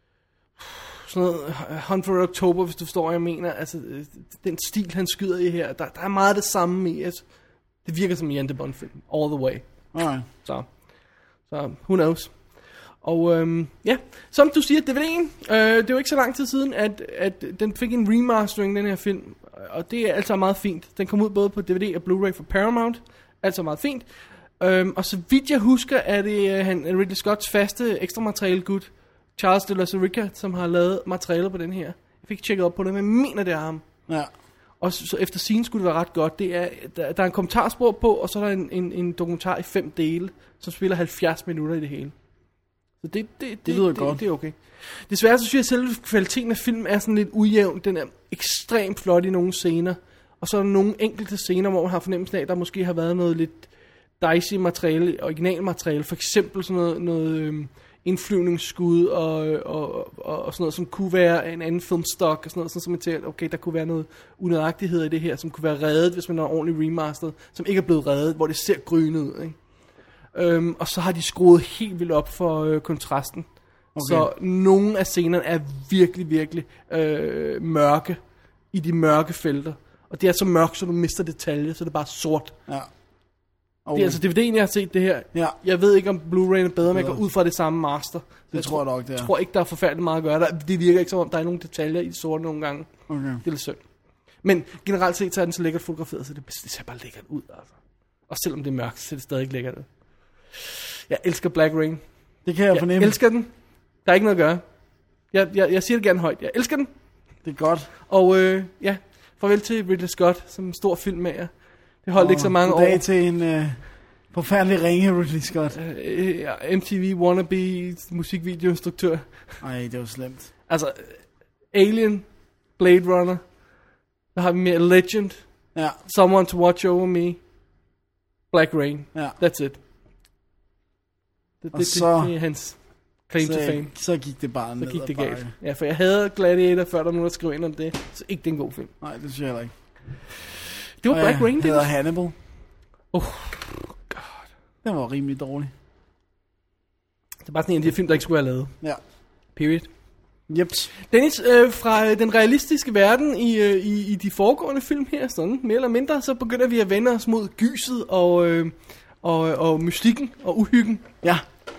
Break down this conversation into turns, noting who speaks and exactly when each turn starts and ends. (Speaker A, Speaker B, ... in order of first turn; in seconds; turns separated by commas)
Speaker A: 0.6-7.2, Speaker A: 7.8-9.7, Speaker B: 9.9-10.3, Speaker A: 10.4-10.7, Speaker A: 11.4-12.4, Speaker A: 13.0-24.1, Speaker A: 24.6-33.9, Speaker A: 34.8-42.1, Speaker A: 43.0-53.7, Speaker B: 43.6-44.2, Speaker A: 54.2-69.6, Speaker A: 70.3-73.5, Speaker B: 74.0-74.3, Speaker A: 74.0-78.2, Speaker A: 78.7-82.5, Speaker B: 83.9-84.2, Speaker A: 84.0-92.9, Speaker B: 86.9-87.2, Speaker B: 88.5-89.3, Speaker B: 93.1-93.4, Speaker A: 93.4-93.8, Speaker A: 94.4-97.7, Speaker A: 98.3-99.9, Speaker A: 100.5-102.0, Speaker B: 102.5-103.2, Speaker A: 102.7-103.5, Speaker A: 104.0-104.6, Speaker A: 105.3-106.9, Speaker B: 107.4-107.9, Speaker A: 108.1-113.0, Speaker B: 112.2-115.8, Speaker A: 115.7-119.6, Speaker B: 119.6-120.5, Speaker A: 120.7-123.4, Speaker A: 124.3-125.4, Speaker A: 126.0-127.4, Speaker A: 128.5-129.8, Speaker A: 131.6-132.8, Speaker B: 131.7-132.3, Speaker A: 133.3-133.9, Speaker B: 133.4-135.5, Speaker A: 134.8-138.9, Speaker B: 139.0-139.7, Speaker A: 141.0-141.9, Speaker B: 141.1-142.3, Speaker A: 143.1-144.4, Speaker B: 144.8-145.7, Speaker A: 147.4-148.7, Speaker A: 149.6-149.9, Speaker B: 150.5-150.9, Speaker A: 151.1-161.1